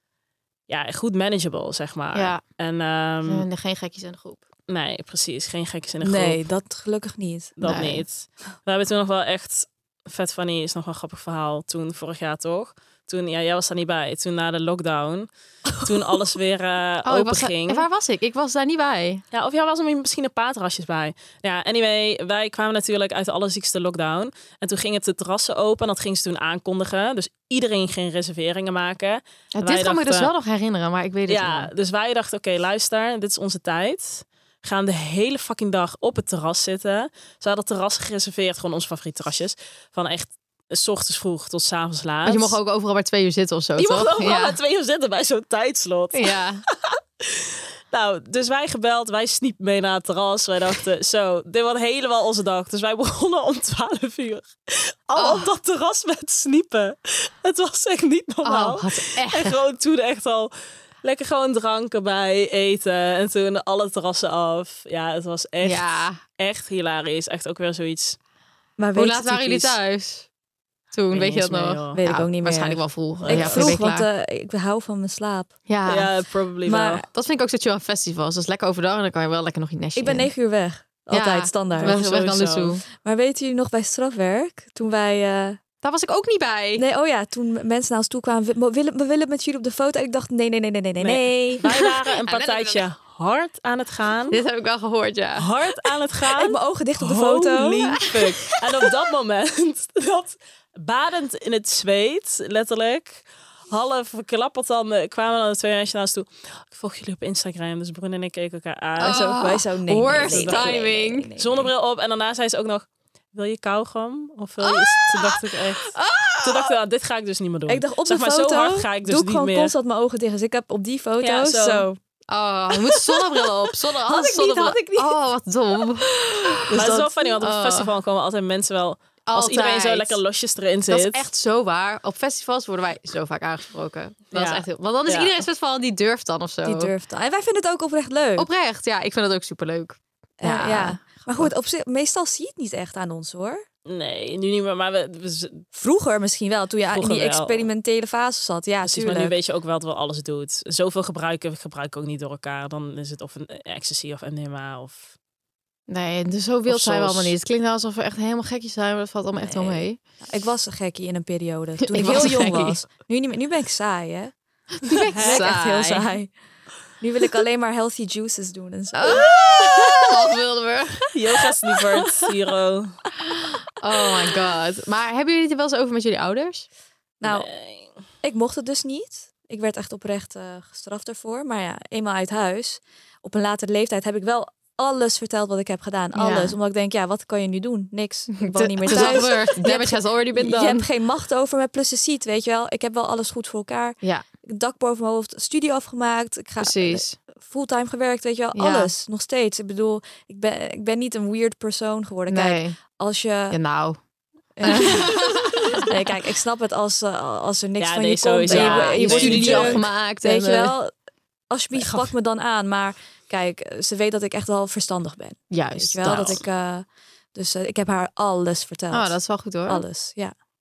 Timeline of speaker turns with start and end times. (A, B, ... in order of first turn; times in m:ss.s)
0:00.7-0:03.5 A
0:02.1-0:02.4 B
0:03.3-0:04.4 B
0:04.7-0:06.4 A
0:06.0-0:07.6 C
0:07.6-0:15.3 A
0:07.6-0:08.0 B
0:15.8-0:16.2 C
0:15.8-0:17.9 A
0:17.0-0:19.2 B
0:19.3-0:30.3 A
0:29.6-0:31.7 B
0:31.3-0:42.6 A
0:42.2-0:44.6 B
0:43.8-1:00.5 A
0:46.1-0:46.6 B
0:55.2-0:55.5 B
0:58.4-0:59.6 B
1:01.0-1:05.8 A
1:05.6-1:06.2 B
1:06.4-1:08.2 A
1:08.8-1:09.8 C
1:09.0-1:10.3 B
1:10.9-1:14.1 B
1:11.1-1:12.0 A
1:11.9-1:15.5 C
1:13.2-1:13.8 A
1:15.7-1:16.1 B
1:15.9-1:17.0 A
1:16.7-1:17.0 C
1:17.1-1:20.3 B
1:20.0-1:22.0 C
1:21.1-1:22.8 B
1:21.8-1:22.8 A
1:23.0-1:25.6 C
1:25.8-1:26.8 B
1:26.8-1:31.7 C
1:31.0-1:34.4 A
1:32.3-1:32.8 B
1:34.3-1:35.5 B
1:35.4-1:49.2 A
1:36.3-1:38.0 C
1:49.0-1:51.7 C
1:49.0-1:51.3 B
1:50.1-1:50.8 A
1:51.4-1:59.7 A
1:54.6-1:56.7 B
1:57.7-2:02.0 C
2:01.2-2:01.9 A
2:02.3-2:06.1 B
2:04.1-2:05.2 C
2:06.1-2:06.6 C
2:06.7-2:07.9 B
2:06.7-2:11.3 A
2:09.3-2:10.2 B
2:10.9-2:16.9 B
2:14.3-2:15.4 A
2:16.6-2:18.5 C
2:18.4-2:21.5 B
2:20.4-2:23.6 C
2:23.9-2:25.6 A
2:25.7-2:29.4 C
2:26.9-2:27.7 A
2:28.8-2:35.1 A
2:35.9-2:40.0 B
2:36.7-2:37.4 A
2:39.4-2:44.3 C
2:41.9-2:42.8 B
2:42.0-2:42.6 A
2:44.8-2:46.1 B
2:44.8-2:46.3 C
2:45.1-2:45.5 A
2:47.0-2:49.3 C
2:49.0-2:51.5 B
2:51.1-2:53.0 A
2:53.8-2:56.7 B
2:57.2-2:57.5 C
2:57.2-2:58.0 A
2:58.2-3:23.6 C
3:06.2-3:06.6 B
3:08.4-3:10.9 B
3:16.6-3:17.2 B
3:18.6-3:18.9 B
3:22.3-3:22.8 B
3:23.5-3:24.0 B
3:24.6-3:30.9 C
3:24.6-3:25.8 B
3:27.8-3:29.9 A
3:28.5-3:30.7 B
3:31.5-3:40.3 C
3:31.8-3:32.1 A
3:35.5-3:36.4 B
3:38.9-3:39.8 B